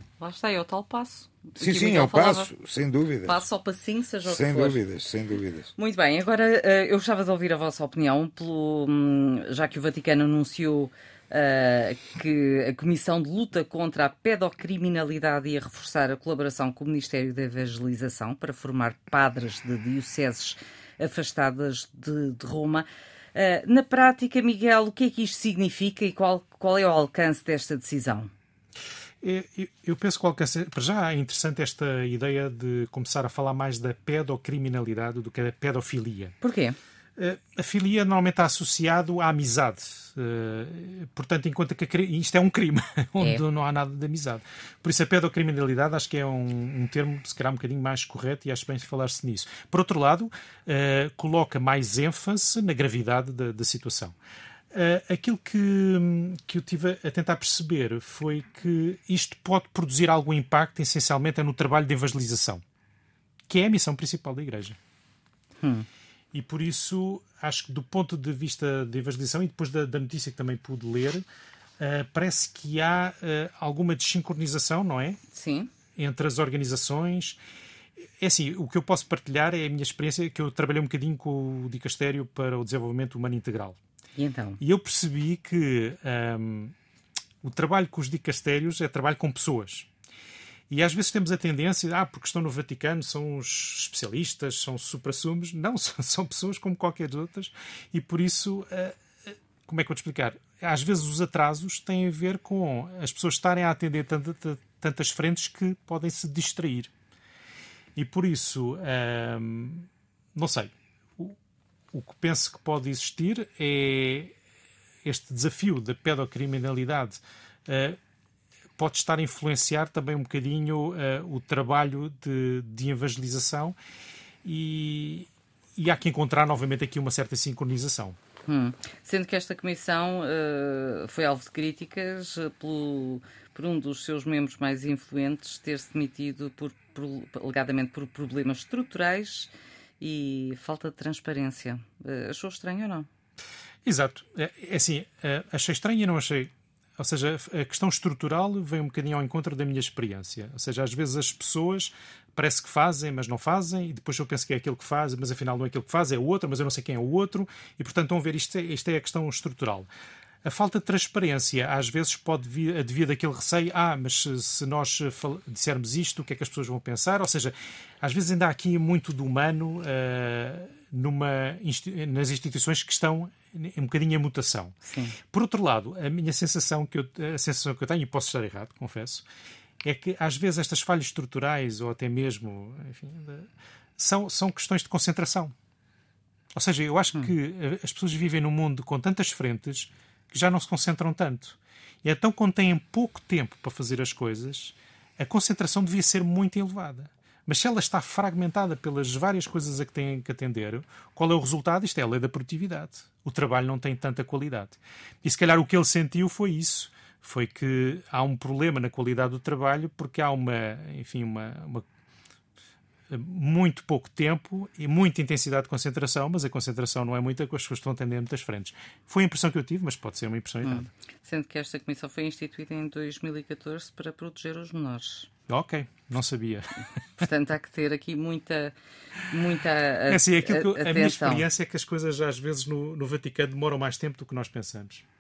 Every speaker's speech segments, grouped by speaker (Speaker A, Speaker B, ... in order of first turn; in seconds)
Speaker A: 0.2-2.5, 3.2-4.8, 5.8-28.3, 36.4-36.8, 65.6-65.9, 75.3-75.7, 84.2-84.6, 128.5-143.1, 174.8-175.2, 220.6-225.3, 227.2-228.7, 229.3-231.5
Speaker B: 1.6-3.4, 4.2-5.7
Speaker C: 29.2-36.4, 37.2-54.1, 54.7-62.6, 63.5-64.8, 66.3-71.2, 71.8-75.2, 76.0-77.4, 78.2-83.8, 84.6-86.7, 87.4-89.9, 90.7-106.9, 108.0-111.4, 111.9-114.3, 115.0-118.0, 118.8-123.8, 124.4-128.2, 143.8-159.9, 160.4-179.2, 179.8-185.5, 186.5-211.8, 213.1-220.9, 225.5-226.9, 230.1-235.1